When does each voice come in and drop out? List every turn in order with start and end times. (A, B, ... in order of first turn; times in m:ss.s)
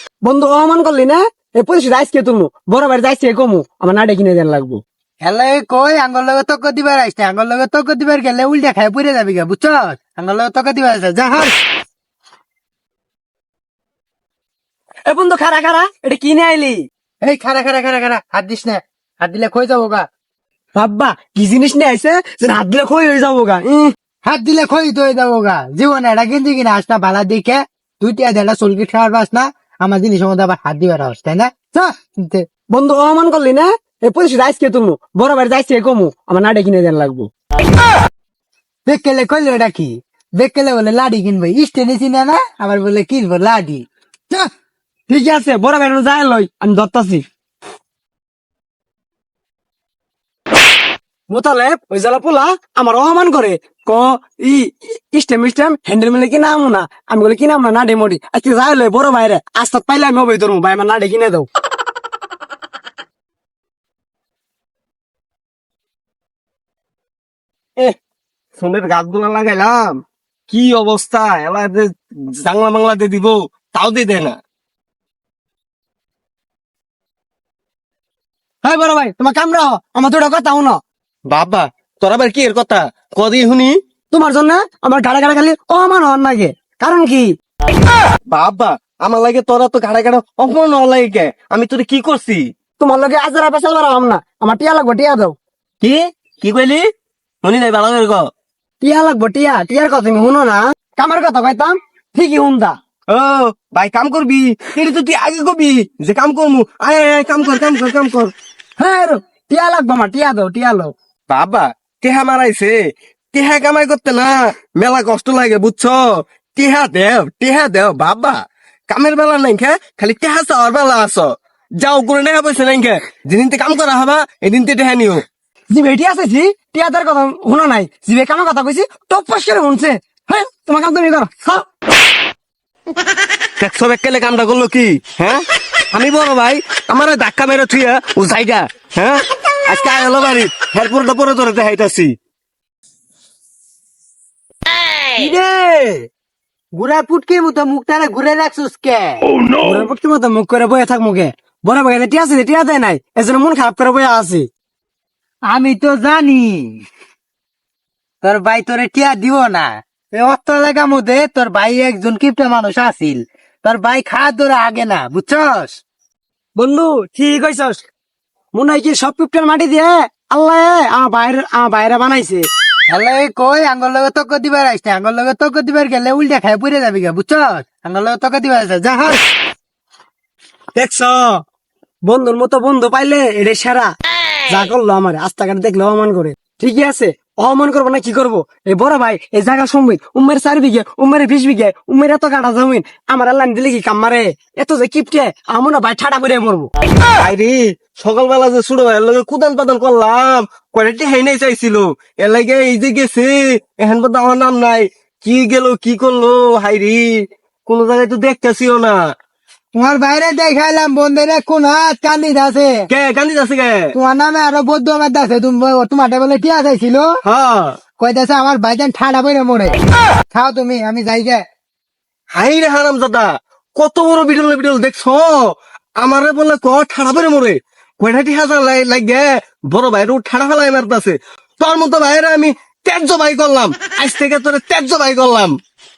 0:00.2-0:04.8 A
0:05.2-0:11.6 B
0:15.0-0:16.9 A
0:17.2-0:20.1 B
0:20.8-0:23.9 A
0:24.2-0:32.5 B
0:32.7-0:37.3 A
0:38.8-0:44.4 B
0:45.1-0:47.2 A
0:51.3-1:01.5 A
1:08.6-1:14.4 C
1:18.6-1:20.8 A
1:21.3-1:23.8 C
1:24.1-1:27.3 A
1:28.3-1:32.5 C
1:32.8-1:35.3 A
1:35.8-1:36.9 C
1:37.4-1:38.3 C
1:38.8-1:42.8 A
1:43.1-1:48.3 C
1:48.8-1:50.9 A
1:51.3-1:52.8 C
1:53.3-1:56.0 C
1:56.5-2:05.2 C
2:05.7-2:11.6 A
2:13.6-2:22.1 C
2:25.1-2:26.0 B
2:26.8-2:29.2 B
2:29.6-2:34.5 A
2:35.5-2:36.8 B
2:38.2-2:45.8 B
2:46.6-2:47.8 A
2:48.5-2:52.5 A
2:52.9-2:59.3 B
3:00.8-3:01.4 A
3:02.0-3:03.9 A
3:04.5-3:16.7 A
3:17.2-3:29.0 C
3:29.8-3:32.8 B
3:32.9-3:33.9 C
3:33.9-3:37.1 B
3:37.2-3:37.8 C
3:38.0-3:39.8 B
3:40.3-3:41.4 B
3:42.3-3:55.6 C